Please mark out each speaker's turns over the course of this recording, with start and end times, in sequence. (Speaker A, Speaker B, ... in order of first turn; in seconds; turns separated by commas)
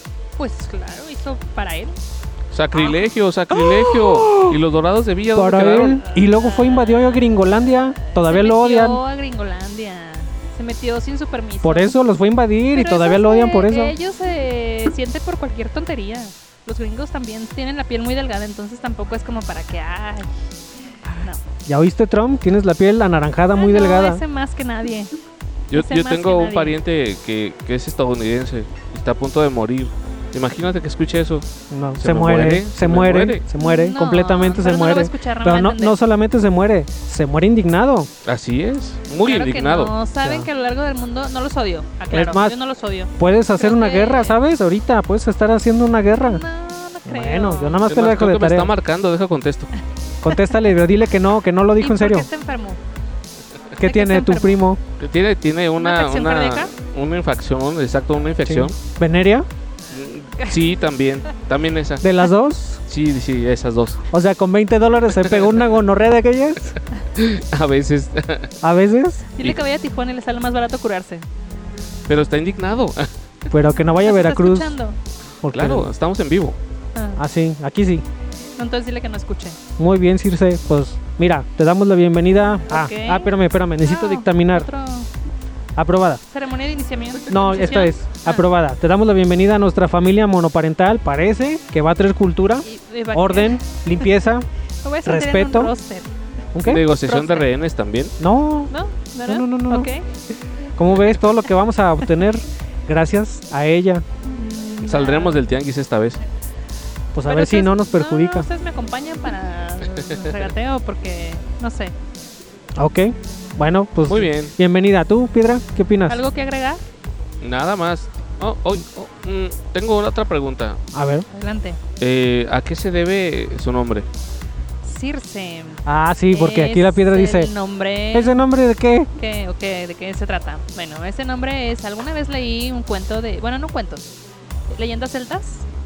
Speaker A: 0.4-2.0, Speaker B: 2.5-6.0, Speaker C: 2.7-3.0, Speaker C: 3.5-4.6, Speaker C: 5.3-9.0, Speaker A: 5.9-11.9, Speaker C: 11.6-13.9, Speaker A: 12.7-20.4, Speaker A: 21.1-21.4, Speaker C: 21.6-24.2, Speaker A: 23.5-25.1, Speaker B: 25.7-31.5, Speaker A: 25.7-26.8, Speaker C: 31.7-38.1, Speaker B: 32.0-33.5, Speaker A: 33.6-36.0, Speaker B: 38.2-39.9, Speaker A: 39.2-44.4, Speaker C: 40.2-40.5, Speaker C: 42.1-42.6, Speaker C: 43.2-46.4, Speaker A: 46.1-47.9, Speaker C: 47.0-48.7, Speaker B: 47.9-49.7, Speaker C: 50.2-52.3, Speaker A: 50.2-50.7, Speaker A: 51.8-52.8, Speaker C: 53.8-54.8, Speaker A: 53.8-54.6, Speaker B: 55.0-58.8, Speaker A: 55.8-56.7, Speaker C: 58.5-59.5, Speaker B: 59.9-62.1, Speaker C: 62.0-62.8, Speaker B: 62.9-64.0, Speaker C: 64.1-66.7, Speaker B: 67.1-68.5, Speaker C: 68.6-69.3, Speaker A: 69.4-71.2, Speaker B: 72.1-73.1, Speaker C: 73.5-74.7, Speaker A: 73.9-75.0, Speaker C: 75.4-75.9, Speaker B: 75.5-76.6, Speaker A: 76.9-77.2, Speaker C: 77.2-78.0, Speaker A: 78.6-79.6, Speaker C: 79.8-84.7, Speaker A: 82.7-85.1, Speaker C: 85.8-86.2, Speaker A: 86.3-88.5, Speaker C: 87.3-94.5, Speaker A: 92.6-94.1, Speaker A: 94.8-96.1, Speaker C: 95.0-95.7, Speaker C: 96.5-96.8, Speaker B: 96.6-98.1, Speaker A: 97.0-97.5, Speaker C: 98.2-98.7, Speaker A: 98.7-100.1, Speaker C: 99.2-99.9, Speaker C: 100.8-104.0, Speaker A: 104.2-105.4, Speaker B: 104.8-106.2, Speaker C: 107.1-108.5, Speaker A: 107.2-111.9, Speaker C: 112.8-116.2, Speaker B: 114.1-114.5, Speaker A: 116.1-116.8, Speaker B: 117.4-120.8, Speaker C: 120.9-121.2, Speaker A: 121.3-121.8, Speaker B: 122.0-124.1, Speaker A: 124.8-128.4, Speaker C: 125.8-127.5, Speaker C: 128.1-129.1, Speaker A: 129.2-134.2, Speaker A: 134.7-135.7